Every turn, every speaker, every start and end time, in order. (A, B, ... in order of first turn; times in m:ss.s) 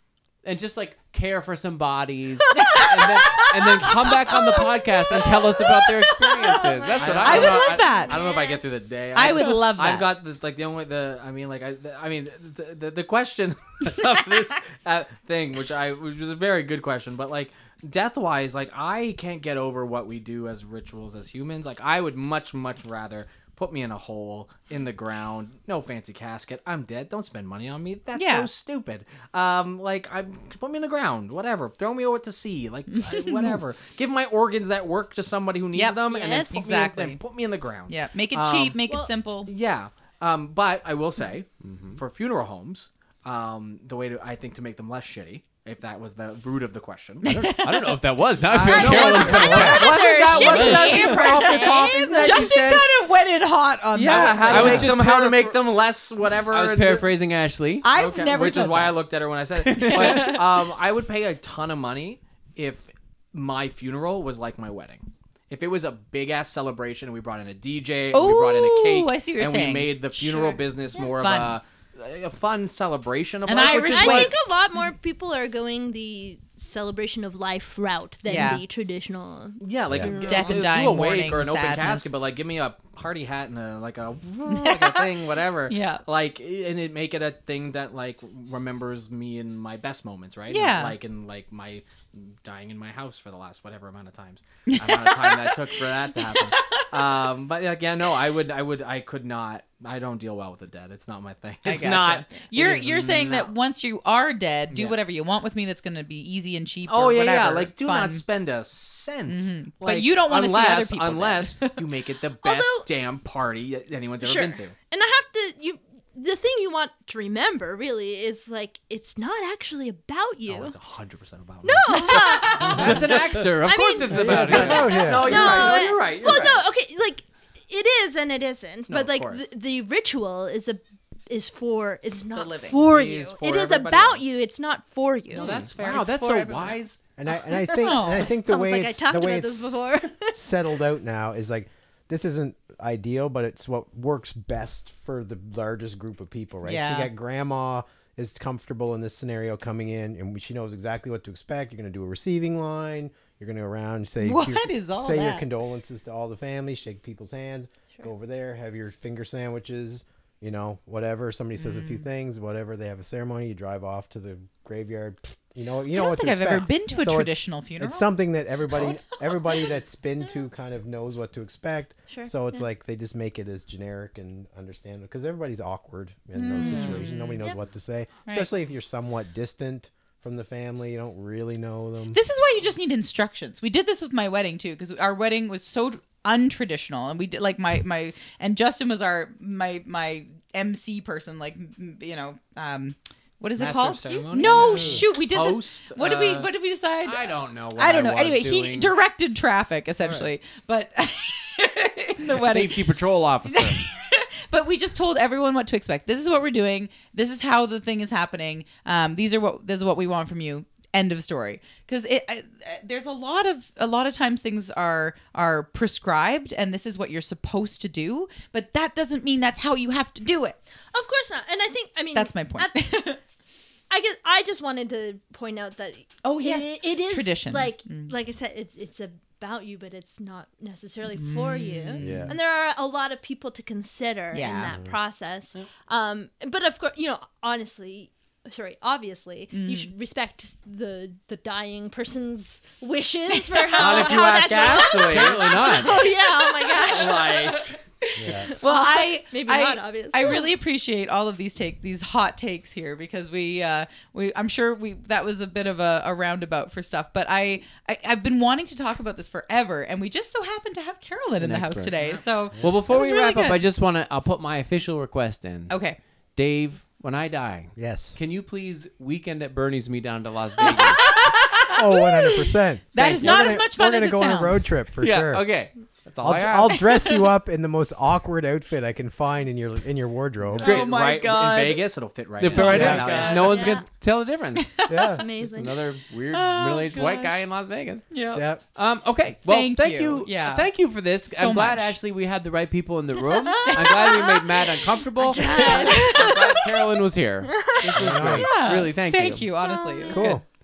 0:00.4-0:07.8 A
0:02.5-0:08.3 B
0:07.0-0:38.8 C
0:07.5-0:08.6 D
0:09.1-0:10.1 B
0:28.1-0:28.5 B
0:33.1-0:33.5 B
0:35.7-0:37.2 B
0:36.1-0:36.7 D
0:37.9-0:39.5 B
0:38.8-0:39.1 D
0:39.5-0:47.3 C
0:41.6-0:42.0 A
0:47.2-0:48.0 B
0:47.2-0:51.2 A
0:48.4-0:52.9 C
0:48.6-0:52.5 D
0:48.6-0:55.0 B
0:53.9-0:57.1 C
0:54.1-0:55.6 A
0:56.5-0:57.9 A
0:57.8-0:59.0 B
0:57.9-1:14.3 C
0:59.6-1:00.4 A
0:59.7-1:00.5 B
1:08.1-1:11.6 B
1:13.4-1:14.3 B
1:13.5-1:20.6 D
1:18.2-1:18.6 B
1:19.6-1:43.5 C
1:20.1-1:22.2 B
1:24.5-1:26.0 B
1:30.5-1:31.0 B
1:34.7-1:37.2 B
1:41.6-1:48.2 B
1:44.7-1:45.0 C
1:46.9-1:54.7 C
1:49.3-1:51.9 B
1:52.4-1:52.9 D
1:54.2-2:00.8 D
2:00.5-2:03.5 C
2:01.6-2:02.9 D
2:01.9-2:03.0 B
2:02.5-2:05.1 A
2:03.6-2:16.6 D
2:04.1-2:05.7 E
2:04.1-2:06.6 C
2:08.9-2:09.4 C
2:12.3-2:12.9 B
2:12.8-2:14.2 C
2:15.3-2:16.8 C
2:15.4-2:17.0 A
2:17.2-3:02.2 E
2:17.6-2:20.4 D
2:17.8-2:18.3 B
2:26.6-2:27.1 B
2:34.2-2:35.4 B
2:41.6-2:42.0 B
2:45.9-2:48.1 B
2:52.1-2:52.6 D
2:56.3-2:57.5 B
2:56.6-2:57.6 D
3:02.1-3:40.6 B
3:13.6-3:16.4 C
3:14.5-3:15.0 A
3:17.0-3:19.0 A
3:20.0-3:20.3 C
3:22.2-3:23.8 A
3:40.9-3:42.9 D
3:42.1-3:43.2 B
3:43.9-4:07.6 D
3:46.2-3:48.1 B
3:51.1-3:52.3 B
3:52.0-3:52.4 E
3:54.3-3:54.7 B
3:54.6-3:54.9 E
3:59.5-3:59.9 B
4:03.3-4:04.9 B
4:03.7-4:05.6 C
4:05.0-4:06.0 A
4:05.6-4:23.6 B
4:06.8-4:07.7 C
4:08.2-4:08.5 E
4:08.6-4:10.4 D
4:21.4-4:21.9 A
4:22.6-4:25.8 A
4:25.7-4:26.0 B
4:26.4-4:31.2 A
4:27.8-4:28.2 E
4:30.6-4:34.6 B
4:31.5-4:35.5 E
4:33.0-4:33.6 A
4:35.0-4:36.9 A
4:36.2-4:40.7 E
4:36.7-4:37.3 B
4:40.6-4:41.9 B
4:40.6-4:40.9 A
4:40.6-4:43.4 C
4:42.4-4:59.4 A
4:42.5-4:43.8 B
4:42.5-4:43.8 D
4:42.7-4:43.0 E
4:44.6-4:45.2 B
4:44.9-4:45.2 E
4:45.2-4:45.7 D
4:46.3-4:47.3 B
4:48.1-4:48.4 B
4:48.3-4:48.6 E
4:49.4-4:50.7 B
4:51.3-4:51.9 B
4:53.4-4:54.3 D
4:53.7-4:54.7 B
4:55.2-4:56.4 D
4:55.3-4:56.6 B
4:57.5-4:57.8 D
4:57.9-4:58.5 E
4:58.2-5:00.4 B
4:59.6-5:00.2 D
5:00.1-5:00.4 E